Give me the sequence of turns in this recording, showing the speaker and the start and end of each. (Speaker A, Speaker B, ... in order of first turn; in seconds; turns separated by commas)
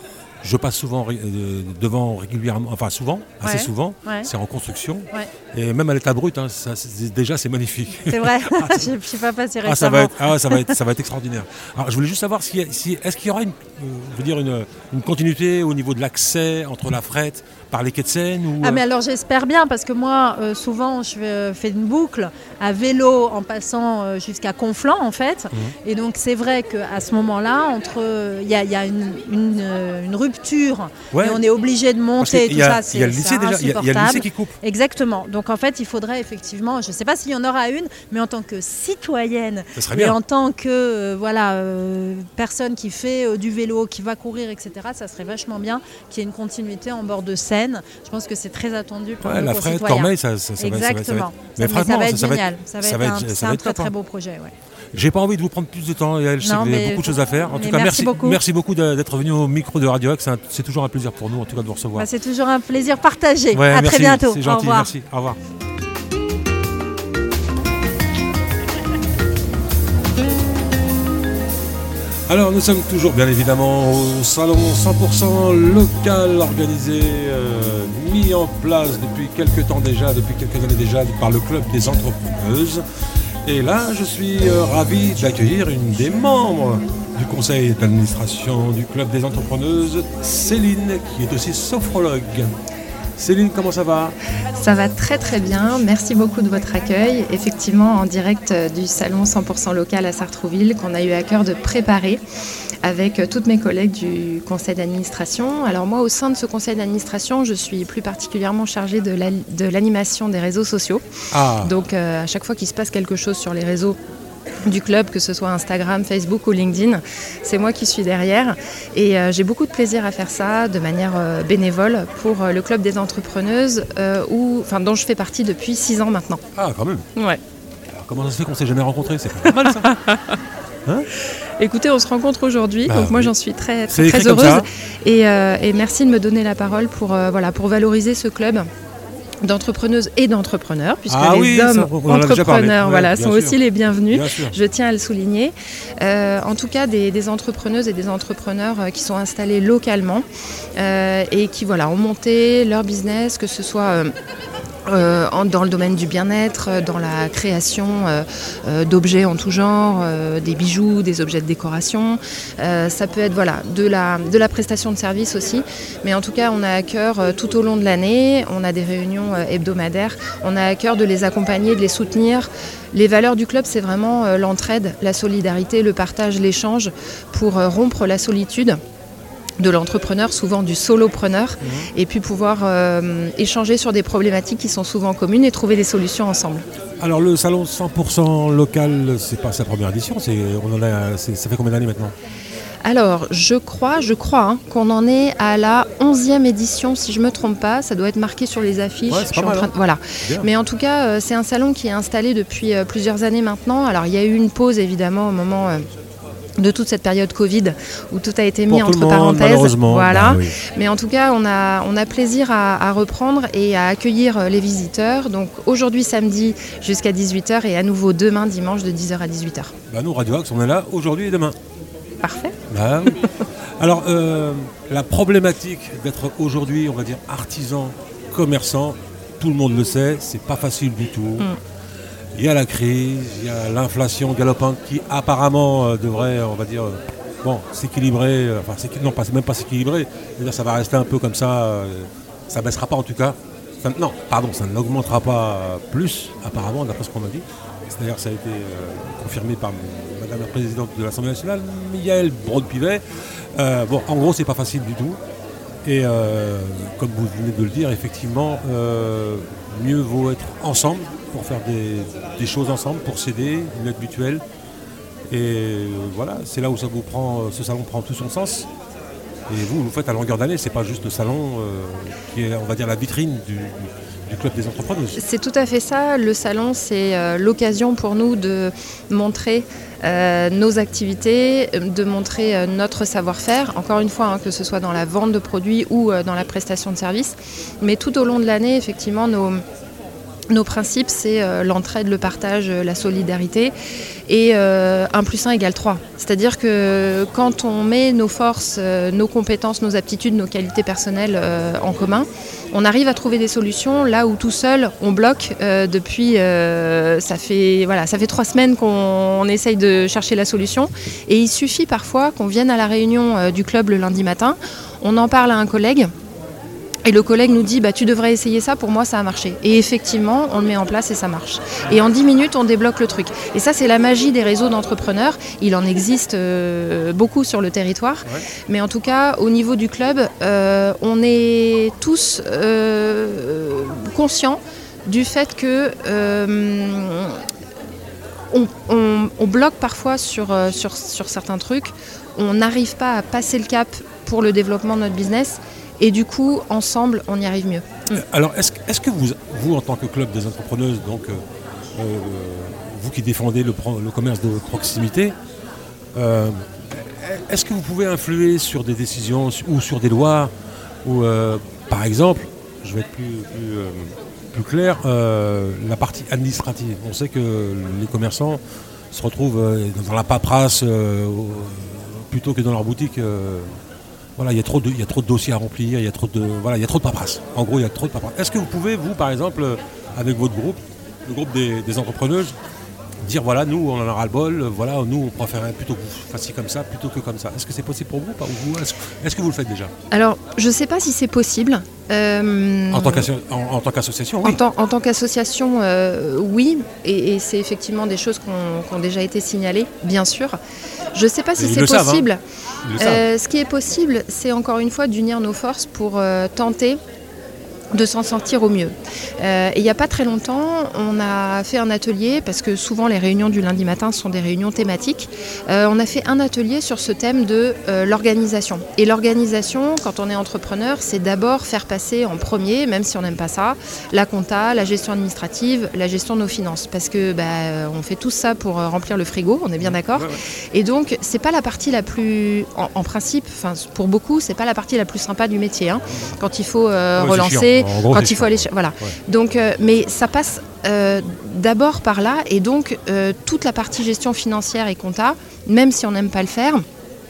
Speaker A: 0.4-8.9, Speaker B: 3.4-4.3, Speaker B: 8.1-10.8, Speaker A: 9.6-18.8, Speaker B: 18.6-54.5, Speaker A: 31.1-31.4, Speaker A: 32.2-34.5, Speaker A: 39.8-40.2, Speaker A: 49.2-53.9, Speaker A: 54.9-62.1, Speaker B: 56.4-58.4, Speaker B: 62.0-64.9, Speaker A: 63.5-65.4, Speaker A: 72.3-82.8, Speaker A: 83.5-92.5, Speaker A: 93.2-94.2, Speaker C: 94.6-102.2, Speaker C: 102.8-111.0, Speaker A: 111.3-111.7, Speaker C: 111.6-114.0, Speaker C: 114.6-126.4, Speaker A: 126.6-127.1, Speaker C: 127.2-127.4, Speaker A: 127.9-129.9, Speaker C: 129.5-130.4, Speaker C: 131.3-138.7, Speaker A: 132.9-133.3, Speaker A: 133.9-134.7, Speaker C: 139.4-150.2, Speaker A: 141.1-143.6, Speaker A: 144.1-144.6, Speaker C: 150.8-154.1, Speaker C: 154.9-178.8, Speaker C: 179.6-186.7, Speaker A: 181.6-181.9, Speaker A: 187.0-192.1, Speaker C: 192.8-205.9, Speaker A: 199.1-199.7, Speaker A: 200.2-200.5, Speaker C: 206.6-219.7, Speaker A: 208.7-210.6, Speaker A: 219.9-221.6, Speaker C: 222.2-223.3, Speaker A: 222.7-231.5, Speaker A: 232.3-253.0, Speaker A: 253.6-255.2, Speaker A: 255.8-264.4, Speaker A: 265.3-268.7, Speaker A: 269.5-275.2, Speaker C: 275.1-289.6, Speaker C: 290.5-293.7, Speaker C: 294.3-316.1, Speaker C: 317.1-337.4, Speaker C: 338.5-348.2, Speaker A: 348.1-351.4, Speaker A: 351.9-355.4, Speaker A: 356.1-360.5, Speaker A: 361.0-368.6, Speaker A: 369.1-373.8, Speaker A: 374.4-382.6, Speaker A: 383.2-389.9, Speaker C: 390.1-393.3, Speaker A: 392.9-394.6, Speaker C: 394.4-400.6, Speaker C: 401.1-402.4, Speaker A: 401.6-402.3, Speaker A: 402.9-403.2, Speaker C: 403.0-407.0, Speaker C: 407.9-446.9, Speaker A: 429.8-430.4, Speaker A: 436.1-436.4, Speaker A: 437.2-439.1